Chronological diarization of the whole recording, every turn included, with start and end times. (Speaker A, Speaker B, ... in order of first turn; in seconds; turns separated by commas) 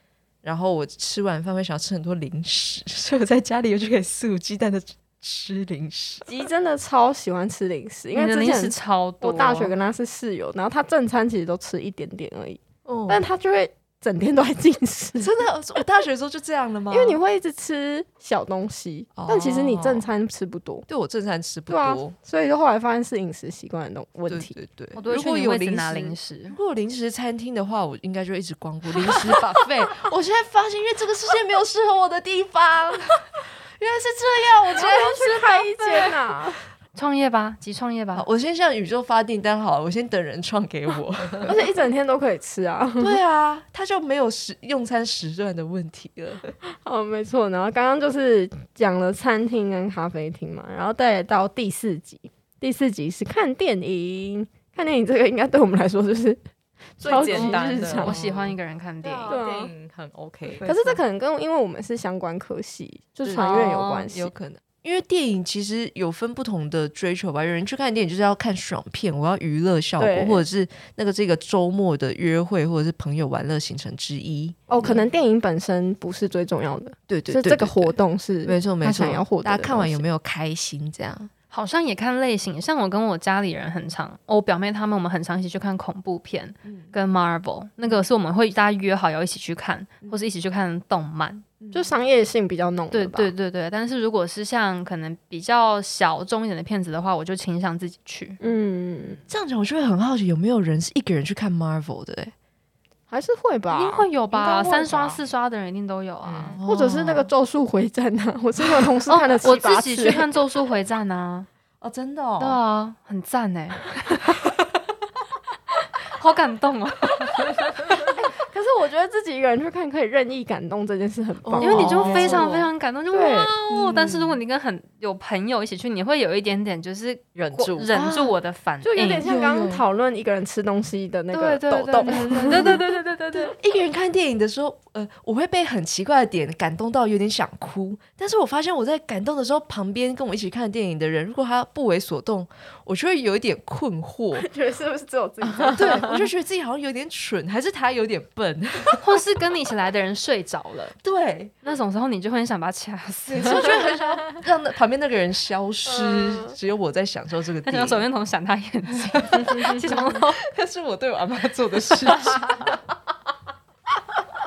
Speaker A: 0.4-6.2, Speaker B: 6.2-15.8, Speaker C: 8.1-9.7, Speaker A: 12.8-13.2, Speaker A: 15.2-17.2, Speaker B: 16.9-20.9, Speaker A: 19.2-20.1, Speaker A: 20.9-22.1, Speaker B: 21.7-24.5, Speaker A: 24.3-36.1, Speaker C: 24.9-26.6, Speaker B: 34.7-36.6, Speaker C: 36.9-38.2, Speaker A: 38.1-41.6, Speaker B: 41.4-43.2, Speaker A: 43.0-46.5, Speaker B: 46.6-56.4, Speaker B: 57.0-58.2, Speaker D: 57.0-58.2, Speaker C: 57.3-59.3, Speaker A: 58.1-58.5, Speaker A: 59.0-59.4, Speaker B: 59.2-59.7, Speaker D: 59.3-60.7, Speaker A: 60.5-61.0, Speaker B: 60.6-64.3, Speaker A: 63.2-75.0, Speaker C: 63.3-64.1, Speaker B: 70.0-70.4, Speaker B: 74.7-80.0, Speaker A: 77.1-77.9, Speaker A: 78.4-81.3, Speaker C: 81.5-91.5, Speaker A: 86.7-86.9, Speaker A: 91.6-91.9, Speaker B: 91.7-93.3, Speaker C: 92.9-98.4, Speaker B: 98.4-99.2, Speaker A: 99.3-102.3, Speaker B: 103.1-104.1, Speaker C: 103.7-106.6, Speaker D: 104.3-105.2, Speaker D: 106.2-106.6, Speaker A: 106.6-107.3, Speaker B: 106.6-110.2, Speaker C: 109.1-111.5, Speaker A: 111.8-112.6, Speaker C: 112.4-114.3, Speaker C: 116.1-118.1, Speaker B: 118.1-122.5, Speaker A: 121.4-122.7, Speaker C: 121.6-129.3, Speaker B: 123.2-123.5, Speaker A: 123.7-124.4, Speaker D: 127.3-127.9, Speaker A: 127.9-128.3, Speaker B: 128.8-132.8, Speaker A: 129.2-129.8, Speaker C: 131.3-133.5, Speaker A: 132.1-132.8, Speaker A: 133.4-144.5, Speaker B: 144.3-146.2, Speaker A: 145.6-149.0, Speaker C: 149.0-151.0, Speaker A: 151.0-151.5, Speaker C: 151.6-154.0, Speaker A: 153.3-158.0, Speaker B: 155.9-156.5, Speaker C: 157.7-160.4, Speaker A: 159.1-162.8, Speaker C: 162.1-162.4